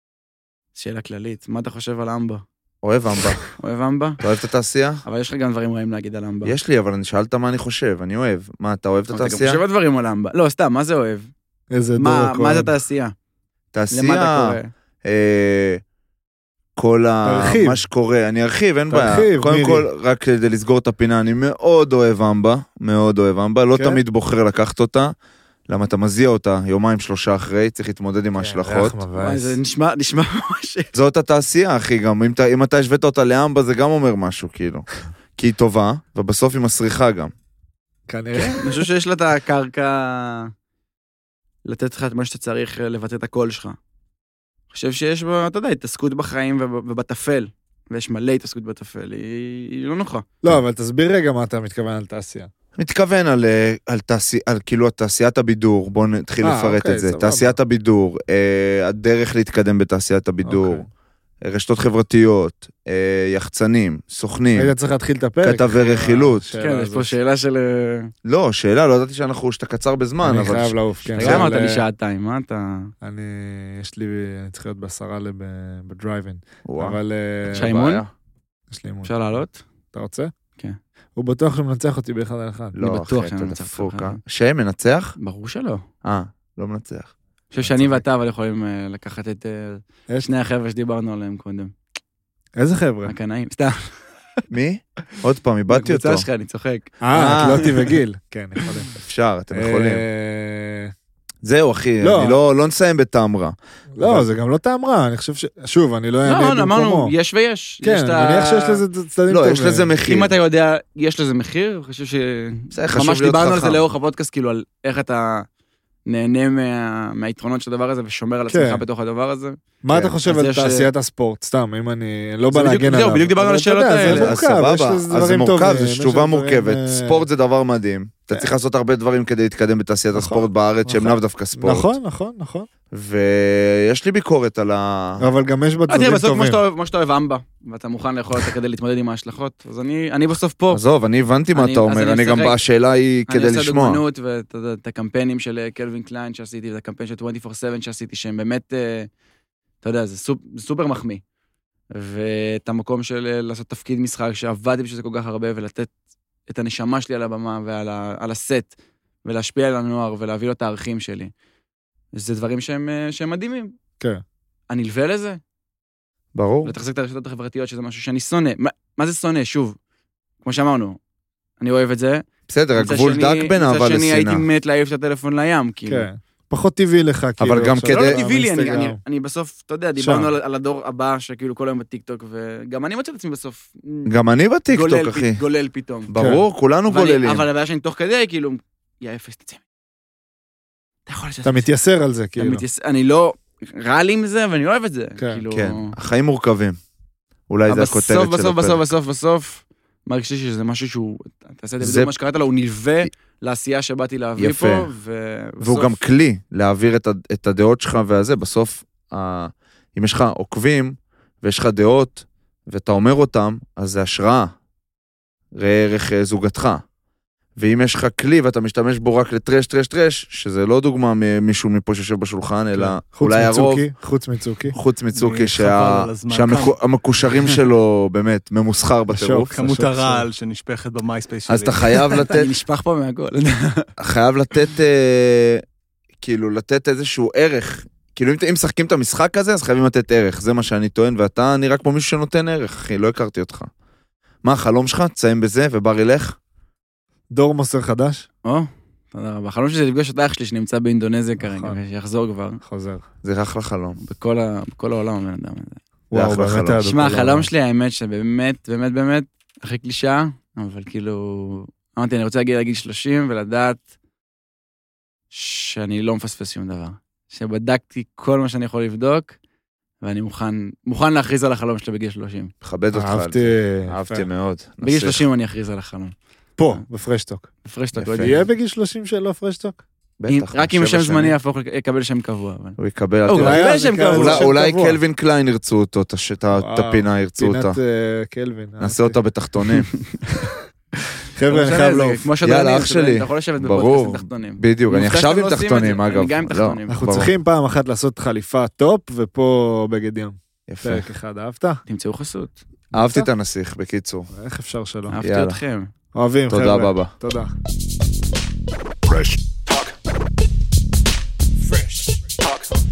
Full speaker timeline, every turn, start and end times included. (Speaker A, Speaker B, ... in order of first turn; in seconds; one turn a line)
Speaker A: 0.8-2.4
Speaker B: 2.8-3.4
Speaker A: 3.6-4.2
Speaker B: 4.2-5.0
Speaker A: 5.0-6.5
Speaker B: 6.4-9.6
Speaker A: 9.1-11.3
Speaker C: 11.7-12.7
Speaker A: 12.0-13.1
Speaker B: 13.7-15.8
Speaker A: 13.9-14.7
Speaker B: 16.8-25.1
Speaker C: 17.2-17.8
Speaker C: 18.9-19.9
Speaker C: 23.7-24.0
Speaker B: 25.7-29.0
Speaker C: 28.4-29.6
Speaker A: 29.2-30.9
Speaker B: 30.9-37.3
Speaker C: 38.1-38.8
Speaker A: 38.3-40.5
Speaker A: 41.6-43.8
Speaker A: 44.7-50.3
Speaker C: 50.4-52.5
Speaker B: 52.8-60.9
Speaker C: 56.4-57.6
Speaker C: 60.4-60.9
Speaker B: 61.4-64.7
Speaker C: 64.5-67.2
Speaker B: 65.4-66.5
Speaker A: 66.6-68.1
Speaker B: 68.2-71.5
Speaker C: 70.2-71.8
Speaker A: 71.2-72.9
Speaker C: 73.0-77.7
Speaker B: 76.6-77.0
Speaker B: 77.5-78.1
Speaker A: 77.5-78.0
Speaker C: 78.7-79.4
Speaker A: 79.0-79.6
Speaker C: 79.9-80.3
Speaker C: 81.2-82.7
Speaker B: 82.7-85.2
Speaker A: 82.8-84.2
Speaker A: 85.2-85.8
Speaker B: 86.0-87.1
Speaker A: 87.5-91.7
Speaker C: 87.6-88.0
Speaker C: 92.5-93.1
Speaker A: 93.0-93.9
Speaker B: 94.5-96.2
Speaker A: 95.7-97.6
Speaker C: 97.0-98.9
Speaker B: 97.1-97.7
Speaker B: 99.0-100.0
Speaker C: 99.5-100.9
Speaker B: 101.4-104.2
Speaker C: 102.0-102.4
Speaker C: 104.0-107.1
Speaker A: 106.2-108.8
Speaker C: 107.8-109.9
Speaker B: 109.3-110.3
Speaker A: 110.0-115.5
Speaker B: 112.7-113.8
Speaker A: 116.0-119.6
Speaker C: 118.5-118.8
Speaker C: 119.8-127.2
Speaker A: 120.2-120.9
Speaker A: 122.5-124.3
Speaker B: 124.0-131.9
Speaker C: 130.1-132.7
Speaker B: 132.9-135.3
Speaker C: 135.2-136.6
Speaker A: 135.9-140.8
Speaker B: 140.7-144.0
Speaker A: 141.5-142.6
Speaker A: 143.3-149.1
Speaker A: 149.8-151.2
Speaker A: 151.9-155.9
Speaker A: 156.5-158.7
Speaker A: 159.2-161.3
Speaker A: 162.1-163.7
Speaker A: 164.7-165.4
Speaker B: 166.3-166.7
Speaker A: 166.6-169.8
Speaker A: 170.4-171.0
Speaker A: 171.6-172.2
Speaker B: 172.5-174.4
Speaker A: 172.8-176.1
Speaker C: 175.9-179.0
Speaker B: 177.4-178.2
Speaker A: 177.9-184.1
Speaker C: 180.0-180.3
Speaker B: 184.1-185.4
Speaker A: 184.7-186.1
Speaker B: 186.1-187.4
Speaker A: 186.9-189.6
Speaker A: 191.1-191.7
Speaker C: 191.4-192.6
Speaker A: 192.4-195.9
Speaker C: 195.2-195.4
Speaker B: 195.5-196.8
Speaker B: 197.5-198.9
Speaker A: 197.7-206.0
Speaker B: 201.8-202.1
Speaker B: 204.4-204.9
Speaker B: 205.6-214.5
Speaker B: 215.6-216.8
Speaker B: 217.6-223.8
Speaker C: 222.7-224.8
Speaker B: 224.7-229.5
Speaker D: 225.1-226.8
Speaker C: 229.1-230.3
Speaker D: 229.5-232.2
Speaker B: 231.5-232.6
Speaker A: 232.3-233.9
Speaker B: 234.0-235.6
Speaker B: 236.2-243.7
Speaker B: 244.4-246.4
Speaker C: 247.3-248.2
Speaker A: 248.4-252.6
Speaker C: 251.4-251.8
Speaker C: 252.6-253.0
Speaker B: 253.2-254.0
Speaker A: 254.0-255.8
Speaker C: 256.1-257.5
Speaker B: 256.1-256.9
Speaker A: 256.8-263.8
Speaker A: 265.3-269.4
Speaker A: 270.0-272.5
Speaker B: 272.6-275.3
Speaker C: 272.9-274.2
Speaker A: 274.8-276.1
Speaker C: 276.6-277.5
Speaker A: 277.6-278.5
Speaker B: 277.9-278.4
Speaker C: 278.2-279.8
Speaker B: 280.2-281.4
Speaker A: 280.3-284.5
Speaker B: 282.8-287.8
Speaker C: 283.4-285.0
Speaker C: 286.6-289.2
Speaker B: 288.8-289.9
Speaker C: 291.3-292.3
Speaker A: 291.5-297.1
Speaker B: 292.4-297.3
Speaker C: 296.9-301.8
Speaker B: 300.7-301.1
Speaker A: 301.9-302.6
Speaker B: 302.9-304.3
Speaker C: 302.9-303.3
Speaker C: 304.3-305.2
Speaker A: 305.1-305.9
Speaker B: 305.2-305.6
Speaker C: 306.1-307.5
Speaker B: 306.5-307.1